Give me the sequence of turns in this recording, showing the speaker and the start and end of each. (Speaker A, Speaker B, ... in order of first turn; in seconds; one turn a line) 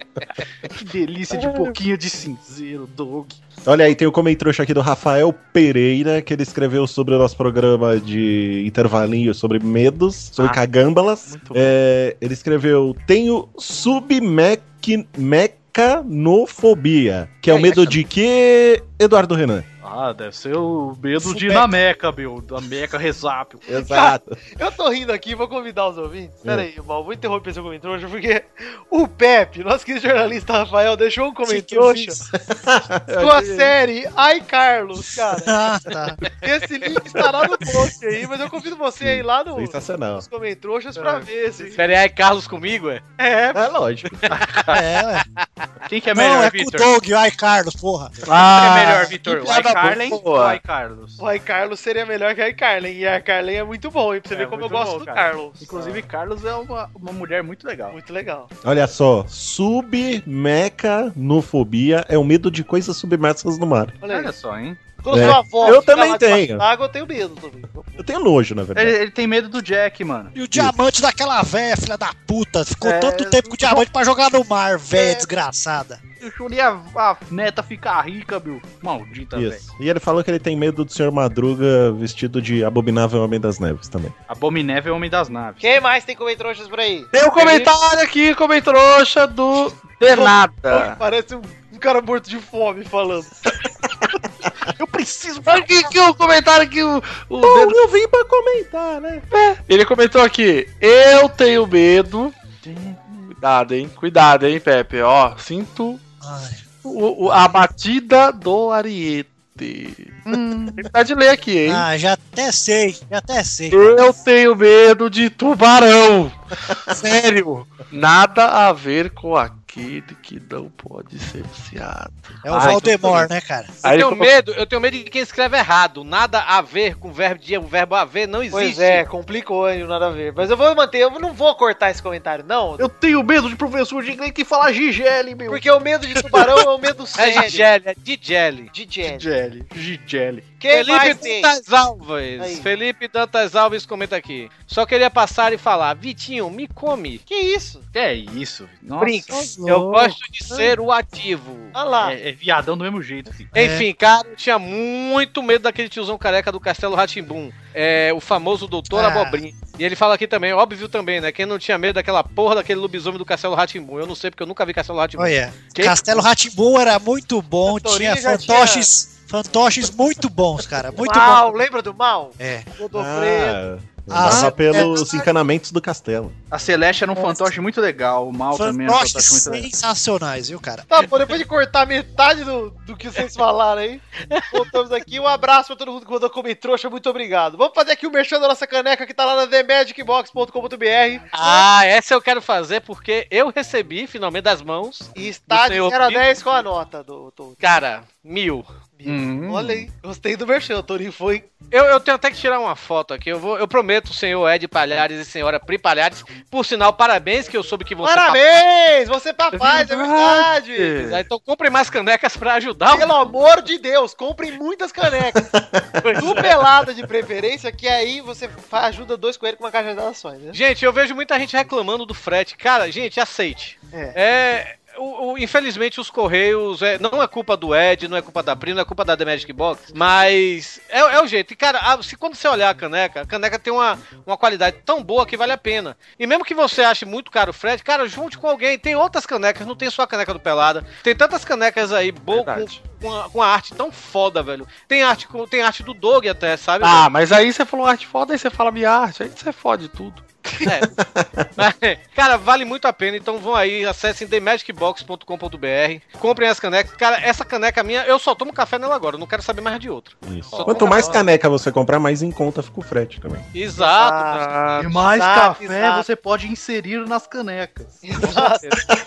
Speaker A: 0.8-3.4
Speaker B: 3.6-19.6
Speaker A: 11.2-11.8
Speaker A: 17.5-18.0
Speaker A: 19.8-23.6
Speaker C: 21.2-21.6
Speaker B: 23.7-24.4
Speaker D: 23.7-32.1
Speaker C: 31.5-32.2
Speaker B: 32.3-33.7
Speaker D: 33.2-35.6
Speaker C: 35.5-36.2
Speaker D: 36.4-41.8
Speaker B: 39.0-40.2
Speaker A: 41.0-41.3
Speaker E: 41.8-43.0
Speaker D: 43.2-43.6
Speaker B: 43.5-44.3
Speaker A: 44.3-44.8
Speaker C: 44.7-45.3
Speaker A: 45.9-46.9
Speaker C: 46.1-48.2
Speaker F: 48.2-50.6
Speaker A: 48.2-51.2
Speaker D: 51.2-56.0
Speaker A: 54.3-58.0
Speaker D: 57.9-58.5
Speaker B: 58.6-64.0
Speaker D: 64.0-64.3
Speaker A: 64.0-64.8
Speaker D: 65.0-68.0
Speaker B: 65.1-66.6
Speaker B: 67.9-69.0
Speaker A: 68.7-70.3
Speaker C: 70.3-76.0
Speaker B: 70.5-70.7
Speaker A: 72.8-73.8
Speaker A: 75.0-75.2
Speaker A: 76.2-79.7
Speaker B: 79.3-84.1
Speaker A: 84.3-85.6
Speaker D: 85.6-87.7
Speaker F: 87.1-91.0
Speaker D: 90.0-93.4
Speaker D: 95.2-95.5
Speaker F: 95.4-97.8
Speaker B: 97.4-99.2
Speaker F: 99.3-102.3
Speaker A: 102.7-103.0
Speaker F: 103.3-106.0
Speaker C: 106.2-106.6
Speaker F: 106.8-111.8
Speaker C: 111.7-114.0
Speaker F: 113.7-116.3
Speaker F: 116.9-123.3
Speaker C: 122.4-123.7
Speaker F: 123.8-124.3
Speaker E: 123.8-129.0
Speaker D: 128.5-132.9
Speaker A: 132.8-135.6
Speaker D: 135.5-137.7
Speaker E: 137.2-138.7
Speaker D: 138.7-139.3
Speaker A: 139.0-140.4
Speaker D: 140.6-141.5
Speaker E: 140.7-147.2
Speaker D: 142.4-142.7
Speaker D: 147.3-147.8
Speaker A: 147.9-149.5
Speaker E: 149.0-151.7
Speaker C: 149.3-150.2
Speaker D: 151.7-152.2
Speaker A: 152.0-153.5
Speaker C: 153.5-153.9
Speaker E: 153.5-165.3
Speaker C: 158.9-159.4
Speaker C: 165.2-171.5
Speaker A: 165.7-166.2
Speaker D: 167.7-168.9
Speaker D: 171.0-173.6
Speaker C: 172.4-172.7
Speaker B: 172.9-176.3
Speaker C: 174.1-175.0
Speaker D: 174.3-175.2
Speaker A: 176.5-179.7
Speaker C: 178.5-180.8
Speaker D: 180.9-191.7
Speaker E: 184.3-184.6
Speaker E: 191.3-196.2
Speaker D: 195.1-197.6
Speaker E: 197.6-198.7
Speaker D: 199.0-201.5
Speaker A: 199.1-199.8
Speaker E: 201.7-208.4
Speaker D: 208.0-211.1
Speaker F: 209.5-211.2
Speaker E: 211.0-213.2
Speaker D: 212.9-215.4
Speaker B: 215.3-216.2
Speaker E: 216.0-216.5
Speaker D: 216.1-220.6
Speaker E: 220.5-247.1
Speaker D: 223.9-224.2
Speaker F: 242.3-242.8
Speaker F: 246.8-250.7
Speaker E: 250.6-250.9
Speaker B: 251.1-251.4
Speaker E: 251.6-261.2
Speaker B: 260.2-263.4
Speaker D: 260.5-261.1
Speaker E: 263.5-265.0
Speaker D: 263.8-266.1
Speaker A: 264.8-268.1
Speaker D: 268.1-268.7
Speaker E: 268.2-268.8